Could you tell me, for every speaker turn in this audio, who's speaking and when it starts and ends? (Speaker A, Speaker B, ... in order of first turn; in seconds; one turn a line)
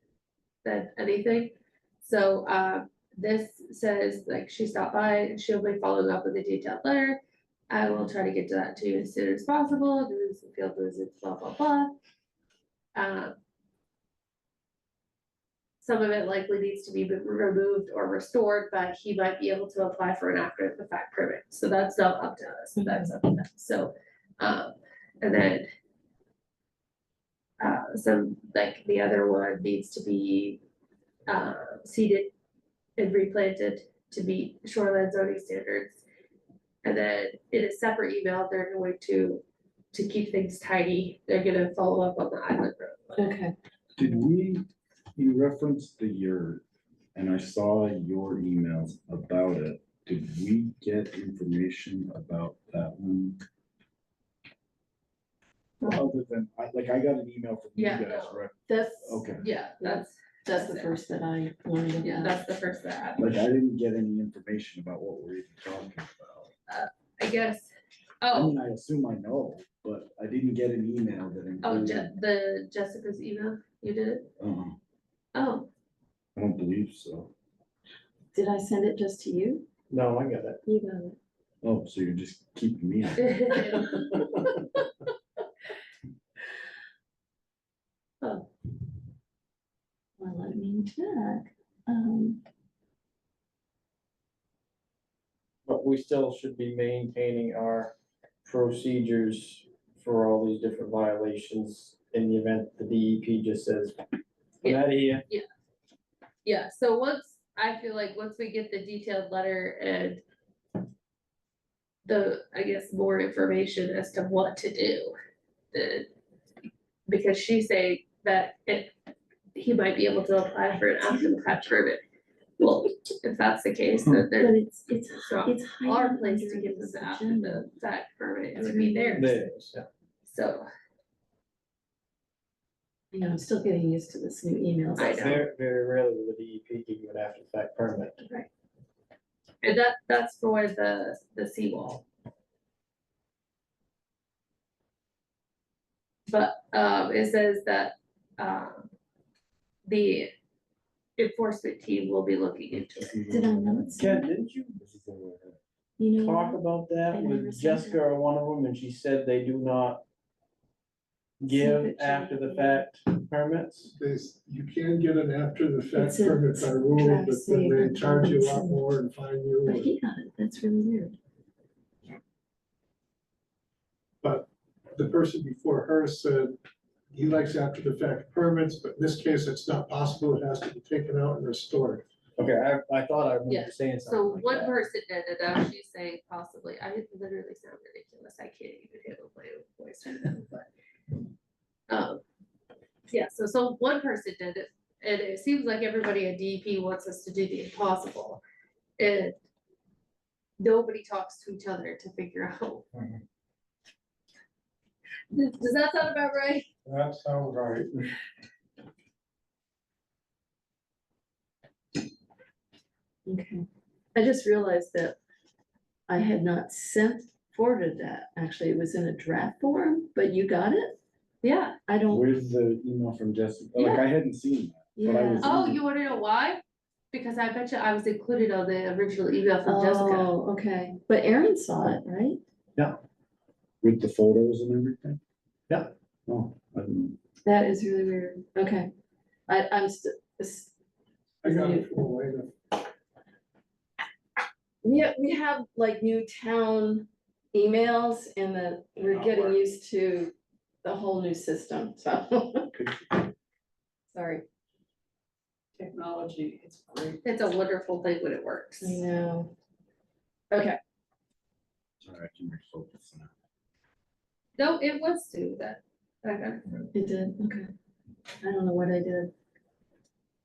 Speaker A: 0.6-11.9
Speaker A: 12.9-13.3
Speaker A: 15.8-25.7
Speaker B: 22.8-23.1
Speaker A: 27.6-30.6
Speaker A: 31.3-32.3
Speaker A: 33.0-36.0
Speaker A: 36.8-43.3
Speaker B: 43.2-43.5
Speaker C: 44.0-46.6
Speaker C: 47.1-53.4
Speaker C: 55.9-59.4
Speaker A: 57.8-58.4
Speaker B: 58.7-59.3
Speaker A: 59.4-60.9
Speaker B: 59.8-62.4
Speaker A: 62.0-63.2
Speaker C: 63.2-66.5
Speaker A: 66.7-67.7
Speaker A: 68.2-68.5
Speaker C: 68.3-72.1
Speaker A: 71.6-74.3
Speaker C: 74.4-74.8
Speaker A: 75.3-75.7
Speaker C: 76.3-77.3
Speaker B: 78.3-79.7
Speaker D: 79.9-80.6
Speaker B: 80.7-81.2
Speaker C: 81.6-84.2
Speaker A: 83.2-84.5
Speaker A: 88.2-88.5
Speaker B: 90.2-92.4
Speaker D: 95.7-97.9
Speaker D: 98.4-104.0
Speaker D: 104.6-105.2
Speaker A: 104.6-105.5
Speaker A: 106.4-110.2
Speaker A: 112.0-115.1
Speaker A: 115.7-116.1
Speaker A: 117.1-118.9
Speaker A: 119.5-122.0
Speaker A: 122.6-124.6
Speaker B: 124.4-127.7
Speaker A: 125.2-129.4
Speaker B: 128.6-129.4
Speaker D: 128.8-129.9
Speaker A: 130.2-130.7
Speaker B: 133.1-135.3
Speaker A: 135.0-135.4
Speaker D: 135.2-138.2
Speaker A: 139.6-142.0
Speaker A: 146.3-148.9
Speaker A: 149.8-150.3
Speaker A: 151.2-153.1
Speaker C: 152.7-154.0
Speaker B: 153.3-154.2
Speaker D: 153.9-154.8
Speaker C: 154.8-155.6
Speaker B: 156.0-156.6
Speaker D: 156.1-160.0
Speaker B: 157.1-158.0
Speaker D: 161.4-163.9
Speaker B: 161.5-162.9
Speaker E: 163.9-169.9
Speaker B: 165.9-168.8
Speaker B: 169.6-171.2
Speaker E: 174.2-176.6
Speaker E: 177.1-182.0
Speaker D: 182.4-184.8
Speaker A: 183.5-190.7
Speaker A: 191.9-192.2
Speaker A: 193.1-198.4
Speaker A: 199.0-199.3
Speaker A: 200.6-202.8
Speaker E: 202.9-203.2
Speaker A: 205.3-206.7
Speaker E: 206.8-208.0
Speaker B: 213.2-215.2
Speaker B: 216.1-220.9
Speaker A: 221.4-221.7
Speaker B: 221.8-222.2
Speaker C: 222.1-225.8
Speaker B: 223.8-224.0
Speaker B: 225.0-225.5
Speaker A: 225.4-226.6
Speaker A: 227.1-230.3
Speaker B: 229.6-232.4
Speaker C: 233.8-235.2
Speaker C: 236.3-237.2
Speaker B: 237.4-238.9
Speaker B: 239.5-240.7
Speaker B: 241.4-241.9
Speaker E: 241.4-242.6
Speaker B: 244.8-250.3
Speaker B: 250.8-252.7
Speaker C: 252.7-253.3
Speaker B: 254.1-254.4
Speaker A: 257.2-259.0
Speaker B: 258.8-259.5
Speaker B: 260.5-260.8
Speaker C: 262.0-263.3
Speaker A: 264.6-266.6
Speaker B: 266.9-267.7
Speaker B: 268.4-269.3